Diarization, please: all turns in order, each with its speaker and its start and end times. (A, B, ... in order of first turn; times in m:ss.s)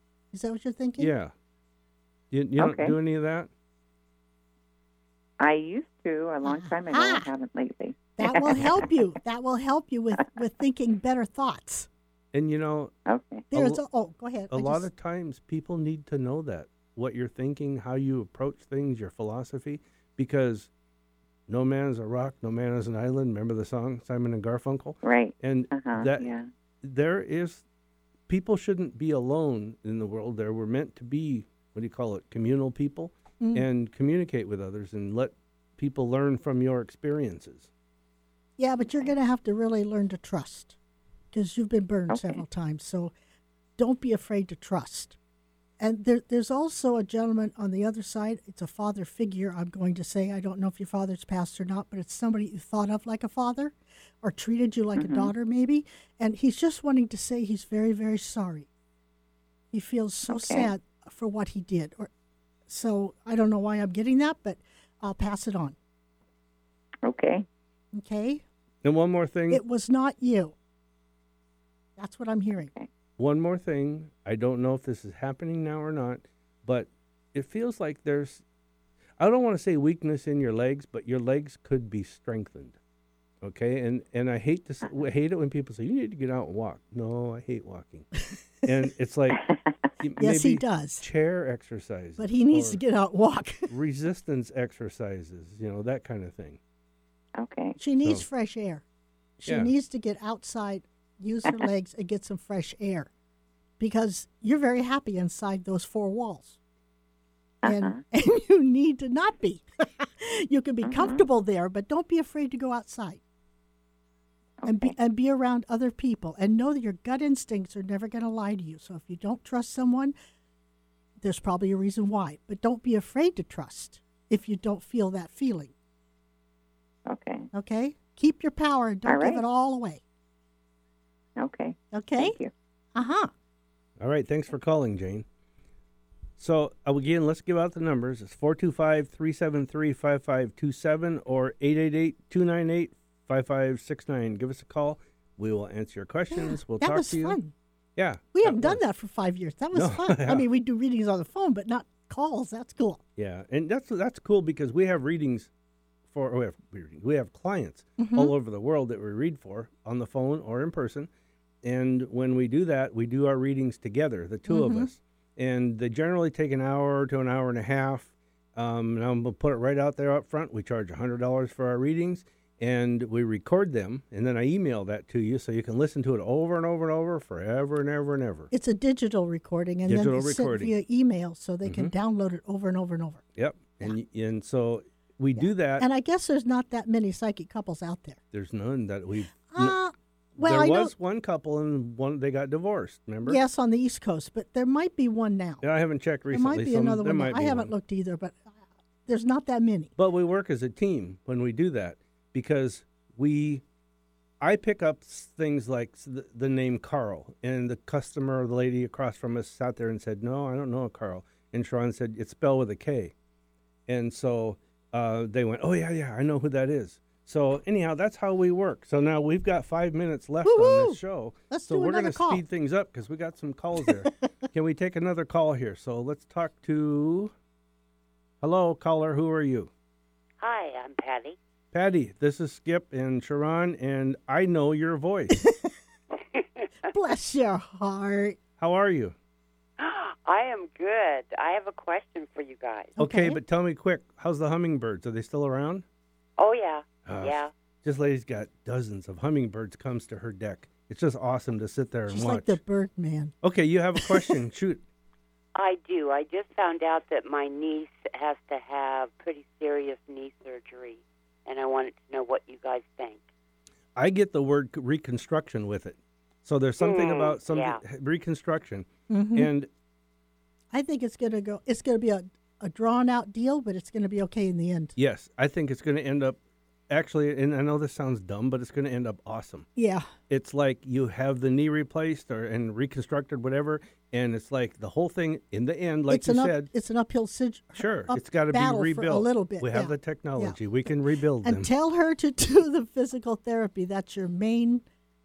0:00.3-0:01.1 A
0:01.0-0:01.3 B
0:02.3-0:03.5 B
0:02.6-0:03.0 C
0:05.4-0:08.7 C
0:06.4-0:07.3 A
0:08.2-0:11.9 A
0:12.3-0:12.9 B
0:13.1-0:13.4 C
0:13.5-0:14.9 A
0:13.5-0:13.8 B
0:14.5-0:20.7 B
0:21.5-0:26.2 B
0:25.0-0:26.5 C
0:26.8-0:27.6 B
0:28.3-0:37.7 B
0:33.4-0:33.6 A
0:38.6-0:40.8 A
0:41.3-0:43.1 A
0:42.1-0:42.4 C
0:43.8-0:45.2 A
0:45.8-0:58.7 A
0:55.0-0:55.3 C
0:59.7-1:02.1 A
1:00.3-1:00.7 C
1:02.7-1:05.8 A
1:07.0-1:07.4 C
1:07.9-1:08.4 A
1:08.8-1:09.6 B
1:09.5-1:10.5 A
1:12.0-1:12.7 A
1:12.6-1:12.9 C
1:13.2-1:18.4 B
1:19.2-1:22.8 B
1:23.4-1:28.1 B
1:28.6-1:29.4 B
1:29.4-1:29.7 C
1:30.0-1:32.8 B
1:30.2-1:31.0 A
1:32.2-1:33.7 A
1:33.7-1:36.6 B
1:37.4-1:37.8 C
1:37.8-1:38.8 A
1:39.4-1:43.1 A
1:39.4-1:39.7 B
1:43.8-1:46.6 A
1:47.6-1:48.0 C
1:47.6-1:53.2 A
1:50.8-1:51.2 C
1:54.6-1:54.9 C
1:54.6-2:00.1 A
2:01.2-2:05.7 A
2:07.1-2:07.5 C
2:07.5-2:10.0 A
2:09.0-2:09.4 C
2:11.4-2:12.5 C
2:11.9-2:12.4 A
2:12.9-2:13.3 A
2:14.0-2:15.2 B
2:16.4-2:27.4 B
2:26.3-2:27.5 A
2:28.0-2:28.8 B
2:28.3-2:33.0 A
2:29.7-2:30.4 B
2:33.2-2:35.5 B
2:36.1-2:41.1 B
2:38.0-2:38.3 A
2:41.6-2:58.5 B
2:44.5-2:44.9 A
2:58.5-3:03.2 A
2:59.8-3:00.7 B
3:01.6-3:01.9 B
3:03.4-3:05.8 B
3:05.3-3:08.2 A
3:08.3-3:09.8 B
3:09.5-3:10.9 A
3:10.4-3:13.4 B
3:13.2-3:15.6 A
3:15.6-3:17.7 B
3:16.3-3:19.9 A
3:20.0-3:23.6 B
3:24.4-3:33.1 B
3:33.9-3:47.3 B
3:40.4-3:42.4 A
3:48.4-3:49.7 B
3:50.4-3:51.4 D
3:51.7-3:55.4 B
3:55.4-3:55.7 A
3:56.2-3:56.7 D
3:56.9-3:58.4 A
3:58.6-3:59.1 B
3:59.8-4:02.9 D
4:03.0-4:03.4 A
4:03.0-4:05.8 B
4:06.4-4:07.5 D
4:07.0-4:12.6 B
4:12.1-4:13.3 A
4:13.4-4:14.8 B
4:14.0-4:14.4 A
4:15.5-4:23.2 D
4:24.0-4:29.7 B
4:26.8-4:27.8 D
4:29.1-4:29.5 A
4:30.7-4:34.9 A
4:35.0-4:36.4 B
4:36.9-4:39.7 B
4:39.8-4:40.1 A
4:40.3-4:46.7 B
4:46.1-4:50.6 A
4:47.8-4:51.7 B
4:51.4-4:54.8 A